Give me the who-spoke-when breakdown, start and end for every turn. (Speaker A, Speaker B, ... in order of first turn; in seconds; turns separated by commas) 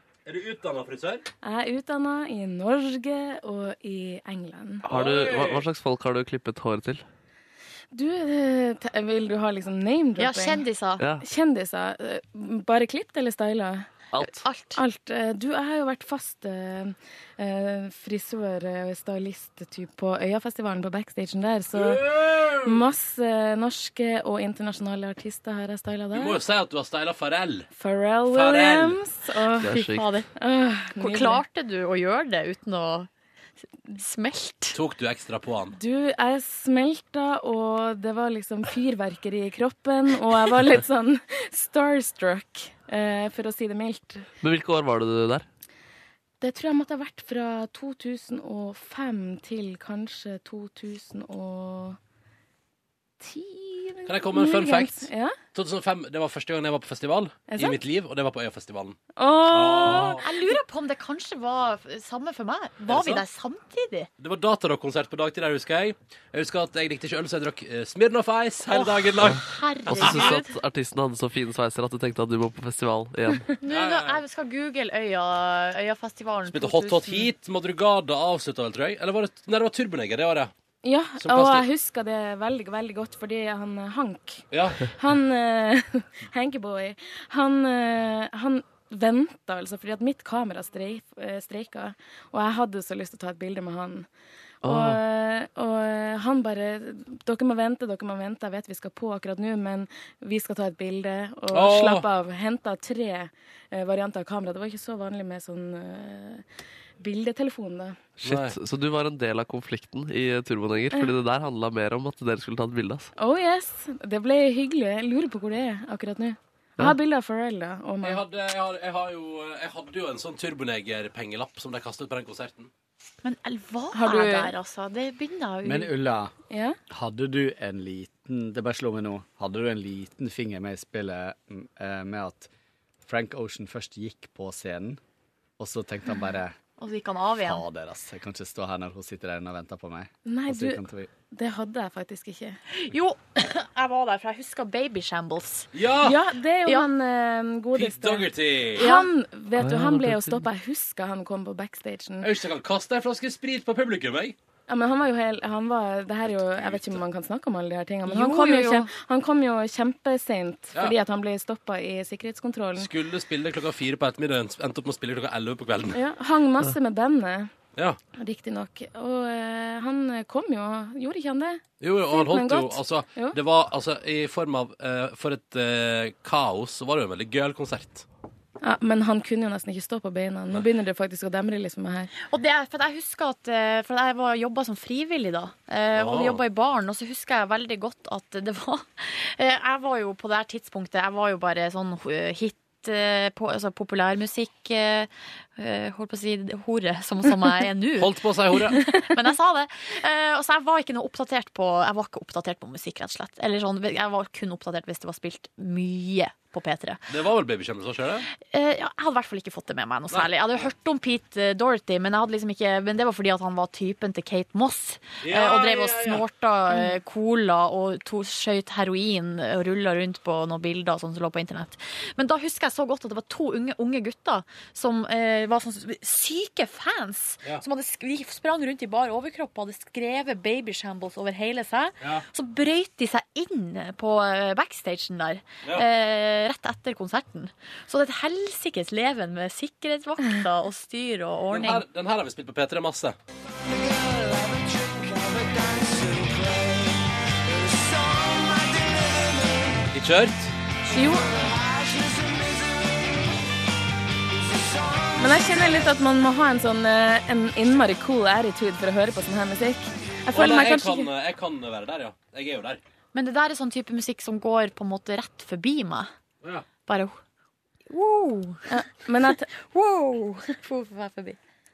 Speaker A: 0.2-1.2, Speaker B: 1.4-4.8, Speaker C: 4.8-7.0, Speaker A: 4.9-5.6, Speaker B: 7.9-10.6, Speaker D: 10.2-11.0, Speaker B: 11.2-13.9, Speaker D: 14.2-14.8, Speaker B: 14.8-22.1, Speaker A: 21.7-22.8, Speaker B: 22.6-26.4, Speaker A: 26.1-27.7, Speaker B: 27.7-29.7, Speaker A: 28.3-29.0, Speaker C: 29.6-30.1, Speaker D: 29.6-30.3, Speaker B: 30.4-31.4, Speaker D: 31.0-33.1, Speaker D: 34.0-34.8, Speaker A: 34.7-35.8, Speaker B: 35.7-44.2, Speaker C: 44.4-45.5, Speaker B: 46.4-52.0, Speaker B: 53.2-55.3, Speaker A: 54.0-60.2, Speaker B: 57.5-57.8, Speaker B: 59.2-60.2, Speaker D: 59.8-64.1, Speaker A: 62.9-63.2, Speaker A: 64.2-70.3, Speaker D: 68.7-70.5, Speaker C: 69.9-73.5, Speaker D: 73.6-77.3, Speaker A: 73.7-74.2, Speaker A: 76.5-80.5, Speaker B: 80.8-94.1, Speaker A: 81.2-81.7, Speaker A: 84.5-84.8, Speaker B: 94.6-106.4, Speaker C: 94.6-95.0, Speaker A: 101.5-102.1, Speaker B: 107.0-108.1, Speaker C: 108.2-113.1, Speaker A: 108.2-108.6, Speaker B: 113.2-118.2, Speaker A: 118.0-122.7, Speaker D: 123.2-125.9, Speaker B: 123.9-124.5, Speaker E: 125.6-126.3, Speaker B: 126.5-126.8, Speaker E: 126.9-132.5, Speaker E: 133.1-135.0, Speaker E: 135.6-136.5, Speaker D: 136.8-137.6, Speaker E: 137.4-141.1, Speaker B: 140.2-142.6, Speaker D: 142.7-145.7, Speaker A: 145.7-146.2, Speaker B: 146.0-152.3, Speaker A: 147.7-148.9, Speaker D: 148.8-149.1, Speaker C: 149.6-150.4, Speaker A: 152.2-154.3, Speaker B: 154.7-162.9, Speaker A: 156.4-157.0, Speaker D: 158.1-158.9, Speaker A: 162.8-166.0, Speaker B: 165.9-167.5, Speaker B: 168.2-173.4, Speaker A: 171.8-178.1, Speaker B: 178.6-182.1, Speaker D: 182.2-207.0, Speaker A: 185.9-186.4, Speaker A: 198.0-198.8, Speaker A: 207.1-208.3, Speaker D: 208.4-241.8, Speaker A: 215.2-216.2, Speaker A: 241.5-243.2, Speaker A: 249.9-250.5, Speaker B: 250.8-251.4, Speaker B: 255.2-261.1, Speaker A: 260.3-262.8, Speaker D: 263.1-266.1, Speaker D: 266.9-267.2, Speaker D: 267.9-268.6, Speaker B: 268.7-269.5, Speaker D: 269.5-271.4